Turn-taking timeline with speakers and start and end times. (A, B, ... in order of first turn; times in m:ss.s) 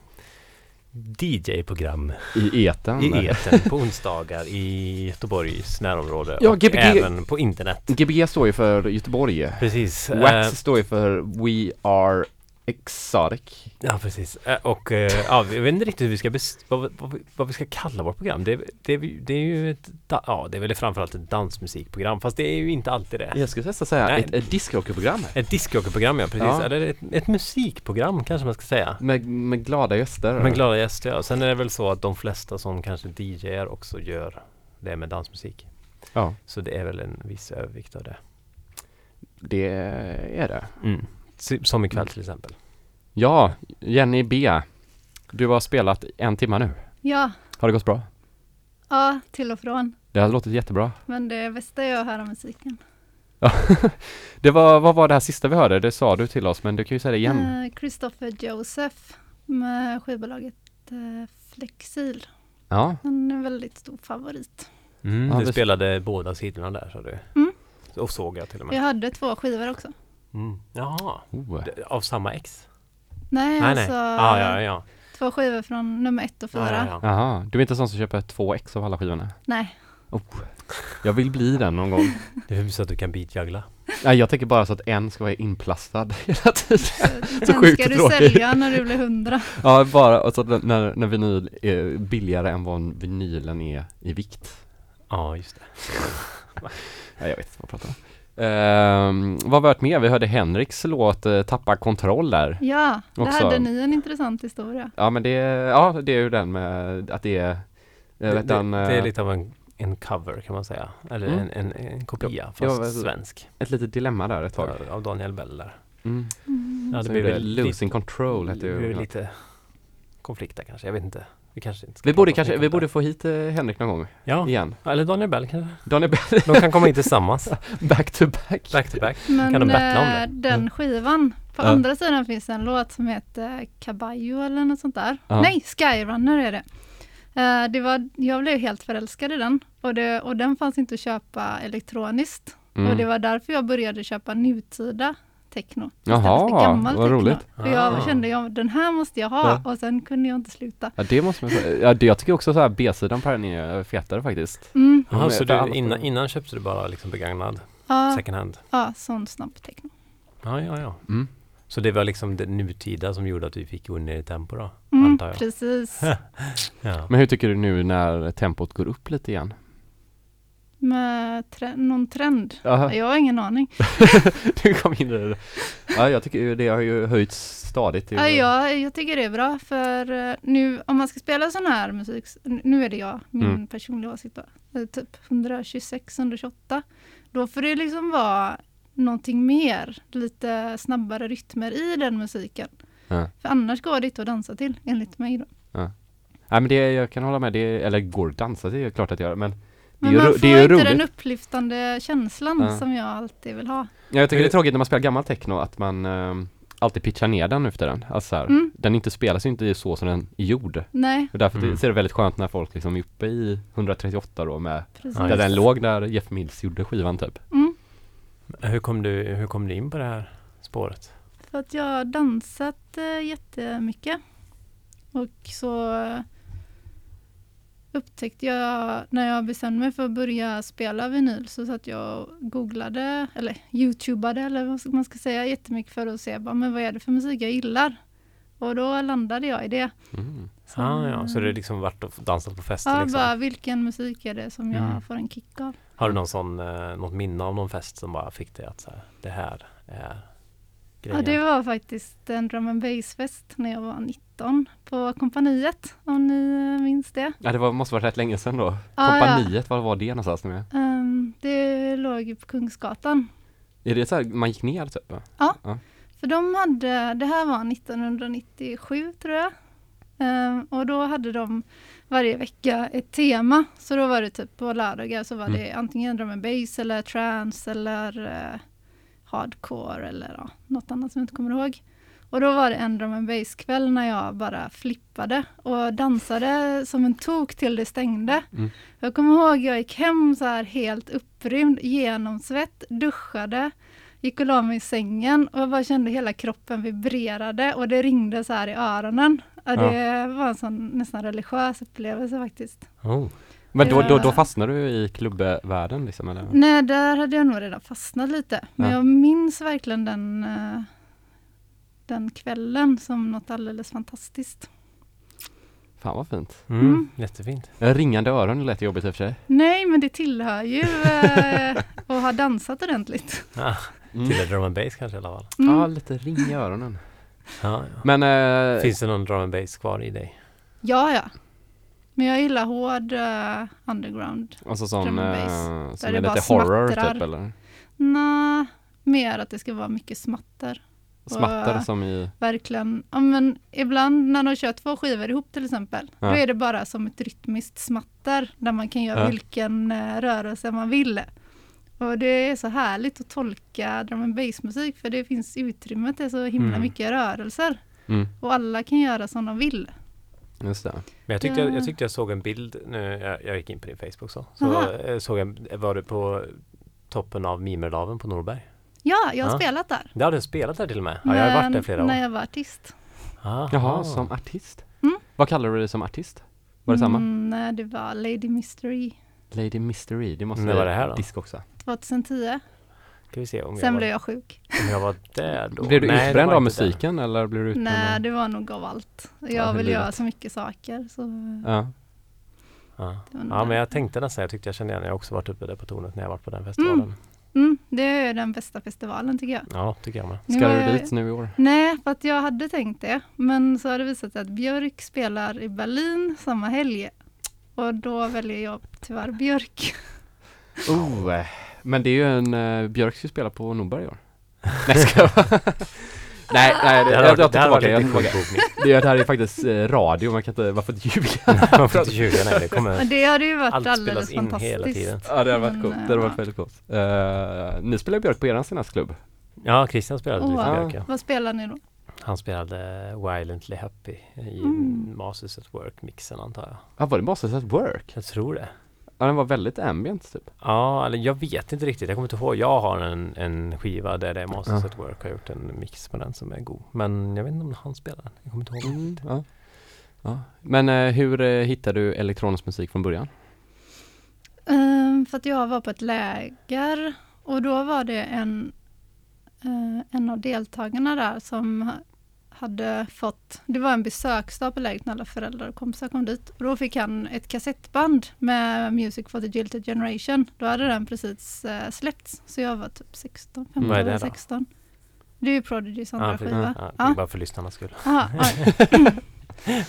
0:00.9-0:07.9 A
0:02.3-0:03.7 B
0:06.4-0:13.7 B
0:09.6-0:10.6 A
0:13.8-0:23.4 A
0:23.3-0:25.4 B
0:24.0-0:24.4 A
0:25.3-0:29.0 A
0:26.4-0:26.7 B
0:29.0-0:30.6 B
0:30.4-0:38.2 A
0:39.4-0:40.7 B
0:40.8-0:42.6 A
0:43.1-0:44.6 B
0:45.2-0:46.9 B
0:47.0-0:47.3 C
0:47.6-0:48.0 B
0:48.9-0:50.0 C
0:50.1-0:51.0 B
0:51.1-0:52.8 C
0:53.4-0:57.5 B
0:57.2-1:02.3 C
1:02.7-1:03.0 B
1:03.0-1:04.7 C
1:05.0-1:08.8 A
1:05.3-1:05.6 B
1:08.7-1:09.9 C
1:10.3-1:12.7 A
1:11.3-1:11.7 B
1:13.3-1:16.9 C
1:13.6-1:14.8 A
1:16.5-1:17.0 A
1:17.0-1:19.5 B
1:19.5-1:19.7 C
1:20.1-1:22.2 B
1:22.4-1:23.7 A
1:24.0-1:28.8 B
1:27.0-1:29.5 C
1:29.5-1:34.6 B
1:35.1-1:36.7 A
1:37.2-1:43.7 B
1:42.6-1:44.9 C
1:45.0-1:49.1 B
1:48.3-1:53.6 A
1:52.2-1:54.8 B
1:54.6-1:55.8 A
1:56.0-1:59.1 B
1:56.5-1:56.9 C
1:56.9-2:02.9 A
2:02.0-2:04.9 B
2:04.2-2:07.6 A
2:05.8-2:09.6 B
2:08.7-2:10.3 A
2:09.3-2:16.6 C
2:17.3-2:31.6 C
2:22.8-2:23.0 B
2:26.0-2:28.1 B
2:27.6-2:28.2 A
2:31.0-2:36.0 B
2:34.7-2:35.1 C
2:35.1-2:38.6 A
2:37.9-2:39.9 C
2:40.4-2:41.2 A
2:41.7-2:47.1 A
2:44.9-2:46.1 C
2:47.1-2:49.5 B
2:50.8-2:54.3 C
2:52.6-2:53.0 B
2:53.8-2:58.4 B
2:58.1-3:12.7 C
3:13.3-3:15.5 C
3:16.4-3:21.0 B
3:20.0-3:23.9 C
3:24.1-3:37.4 B
3:24.3-3:24.6 A
3:30.9-3:31.3 C
3:31.5-3:31.8 A
3:35.0-3:35.6 C
3:37.5-3:37.8 C
3:38.5-3:41.1 A
3:41.4-3:44.2 C
3:45.1-3:46.2 C
3:47.9-3:58.0 C
3:58.6-3:59.9 C
4:00.1-4:00.5 B
4:00.7-4:01.5 C
4:00.7-4:03.3 A
4:02.8-4:05.8 C
4:06.0-4:10.4 A
4:11.0-4:11.4 A
4:11.1-4:17.4 C
4:17.4-4:20.7 B
4:19.0-4:19.5 C
4:20.7-4:23.3 C
4:23.8-4:25.8 B
4:26.2-4:29.5 C
4:30.2-4:38.6 C
4:39.2-5:03.0 C
5:03.0-5:03.3 A
5:03.7-5:06.6 B
5:03.8-5:04.4 C
5:06.5-5:10.9 C
5:12.1-5:14.7 C
5:16.0-5:16.7 B
5:16.7-5:17.7 A
5:16.8-5:17.1 C
5:17.8-5:19.4 B
5:19.5-5:23.5 C
5:23.5-5:25.5 A
5:24.1-5:24.4 B
5:25.6-5:25.9 C
5:25.6-5:27.0 B
5:27.6-5:28.1 A
5:28.0-5:28.9 B
5:28.7-5:30.4 A
5:30.8-5:31.3 C
5:32.1-5:37.2 C
5:34.6-5:37.5 B
5:38.0-5:51.3 C
5:41.3-5:42.3 B
5:52.0-5:57.8 C
5:56.6-5:56.9 A
5:58.3-5:59.9 C
6:00.6-6:01.0 B
6:01.3-6:08.6 A
6:01.4-6:01.9 C
6:04.6-6:04.9 C
6:09.0-6:10.1 C
6:09.4-6:12.2 A
6:11.2-6:12.9 C
6:13.4-6:14.3 A
6:13.7-6:17.2 B
6:16.9-6:19.2 C
6:19.5-6:21.6 B
6:20.6-6:21.2 A
6:21.8-6:22.6 C
6:23.3-6:27.0 A
6:23.8-6:24.8 C
6:25.8-6:28.2 B
6:27.7-6:31.6 C
6:29.5-6:30.2 B
6:31.6-6:31.9 B
6:33.0-6:37.2 A
6:33.3-6:33.8 C
6:36.8-6:39.7 C
6:39.7-6:40.4 A
6:40.4-6:47.1 C
6:40.5-6:41.5 B
6:47.7-6:50.1 C
6:50.8-7:02.8 B
6:57.0-6:58.8 A
7:01.6-7:05.2 A
7:03.0-7:06.4 C
7:05.2-7:09.2 B
7:09.6-7:11.1 A
7:10.4-7:11.8 C
7:10.6-7:11.0 B
7:12.2-7:16.8 A
7:14.6-7:15.1 C
7:17.0-7:18.1 B
7:18.1-7:18.7 A
7:19.2-7:20.5 B
7:20.6-7:29.2 A
7:28.8-7:33.3 B
7:34.7-7:38.7 C
7:39.6-7:54.7 C
7:53.8-7:54.0 B
7:53.8-7:54.4 A
7:55.4-7:59.2 C
7:56.2-7:58.7 A